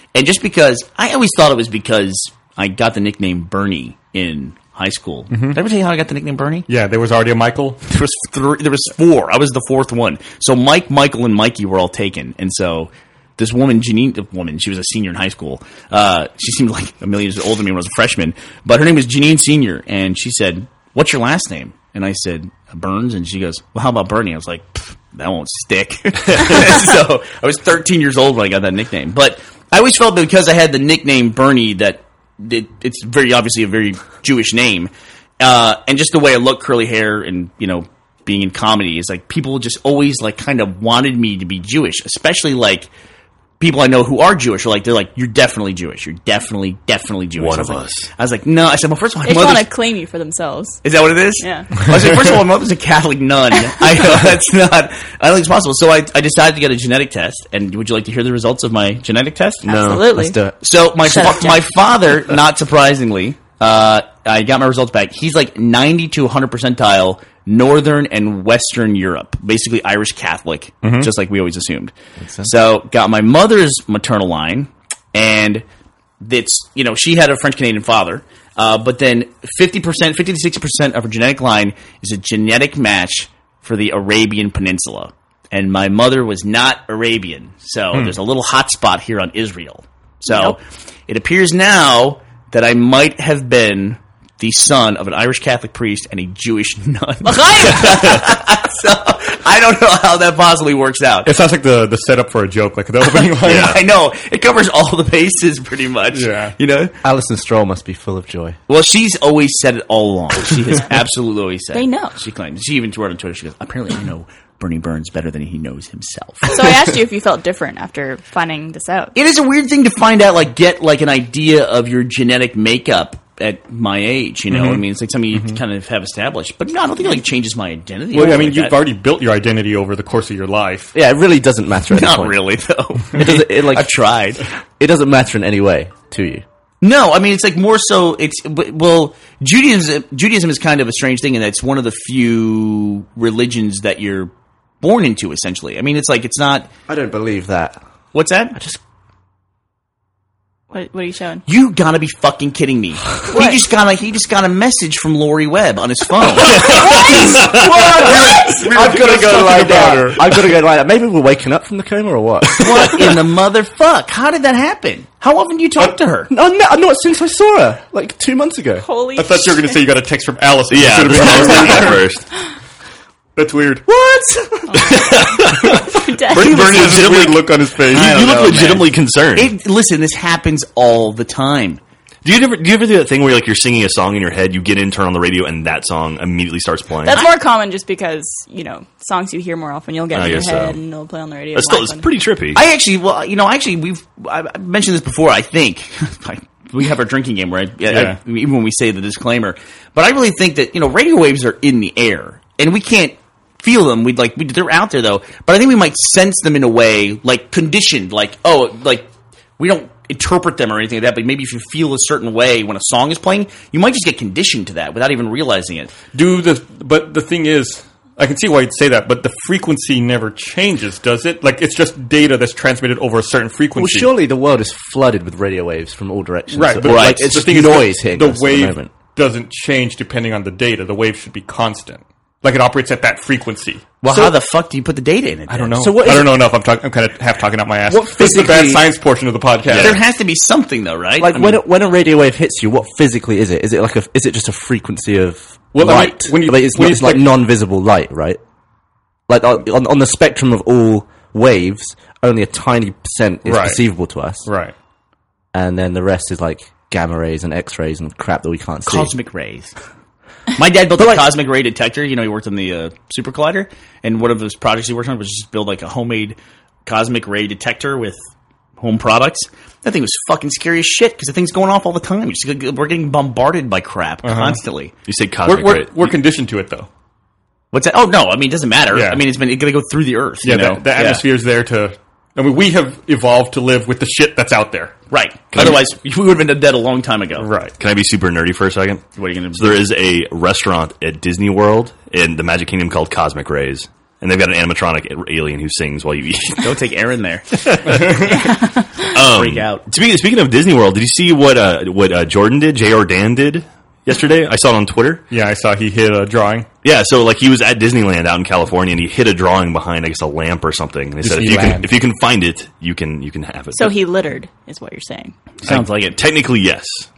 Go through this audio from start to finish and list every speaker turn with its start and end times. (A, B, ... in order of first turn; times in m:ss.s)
0:00.1-0:06.7 A
0:05.3-0:05.6 B
0:06.7-0:07.8 B
0:07.9-0:42.9 A
0:43.6-0:49.7 A
0:47.4-0:48.1 C
0:49.2-0:50.8 D
0:50.8-0:59.6 A
0:51.4-0:51.8 D
0:59.6-1:00.2 C
0:59.6-1:00.4 D
0:59.9-1:00.5 E
1:00.6-1:15.6 A
1:01.0-1:01.6 D
1:10.8-1:11.1 B
1:16.2-1:41.3 A
1:30.3-1:30.5 D
1:41.2-1:43.8 B
1:43.1-1:46.9 A
1:43.4-1:43.8 C
1:46.1-1:46.5 B
1:47.0-1:48.6 E
1:48.7-1:56.7 A
1:51.7-1:52.2 D
1:56.4-1:59.1 D
1:59.1-2:08.8 A
2:04.5-2:04.8 B
2:08.1-2:10.9 B
2:10.9-2:12.4 E
2:11.9-2:14.4 A
2:13.1-2:13.9 E
2:14.8-2:16.4 E
2:16.8-2:24.3 A
2:24.8-2:26.7 A
2:26.9-2:27.8 E
2:28.1-2:28.6 A
2:28.5-2:28.8 E
2:30.7-2:31.4 D
2:31.5-2:36.7 A
2:33.3-2:33.6 D
2:36.6-2:43.1 E
2:36.6-2:37.2 D
2:37.6-2:40.5 B
2:42.6-2:46.3 A
2:46.3-2:48.8 E
2:48.8-2:49.8 D
2:49.2-2:52.0 B
2:50.7-2:52.2 C
2:53.4-2:53.8 B
2:53.9-2:54.8 E
2:54.7-2:57.0 D
2:54.8-2:59.5 C
2:56.3-2:58.4 B
2:57.9-3:01.8 A
3:02.2-3:07.2 C
3:07.0-3:12.1 D
3:10.1-3:10.8 C
3:11.5-3:12.6 C
3:12.5-3:36.0 A
3:17.9-3:18.2 B
3:36.1-3:44.1 B
3:43.8-3:48.9 E
3:46.5-3:53.9 B
3:46.8-3:47.5 A
3:54.0-3:55.9 A
3:55.5-4:00.0 B
3:55.8-3:56.4 E
3:57.9-3:58.9 E
3:59.7-4:01.6 A
4:01.2-4:08.4 E
4:05.7-4:07.3 B
4:09.3-4:14.5 E
4:13.4-4:13.8 B
4:14.4-4:14.7 B
4:15.5-4:19.1 E
4:18.8-4:19.7 A
4:20.5-4:28.2 A
4:21.0-4:21.3 E
4:28.8-4:34.9 A
4:34.2-4:34.6 B
4:35.1-4:36.1 C
4:35.4-4:36.9 B
4:37.7-4:41.2 A
4:38.9-4:39.2 B
4:40.4-4:44.9 B
4:45.1-4:47.5 A
4:45.5-4:45.8 C
4:47.4-4:47.7 B
4:47.8-4:56.8 C
4:49.2-4:49.8 A
4:56.6-4:58.4 A
4:57.6-4:58.0 C
4:57.9-4:58.5 B
4:59.1-5:05.2 C
4:59.1-4:59.8 A
5:05.3-5:06.7 B
5:06.8-5:14.0 C
5:11.2-5:11.9 B
5:13.7-5:15.4 D
5:15.6-5:16.2 A
5:15.6-5:17.1 C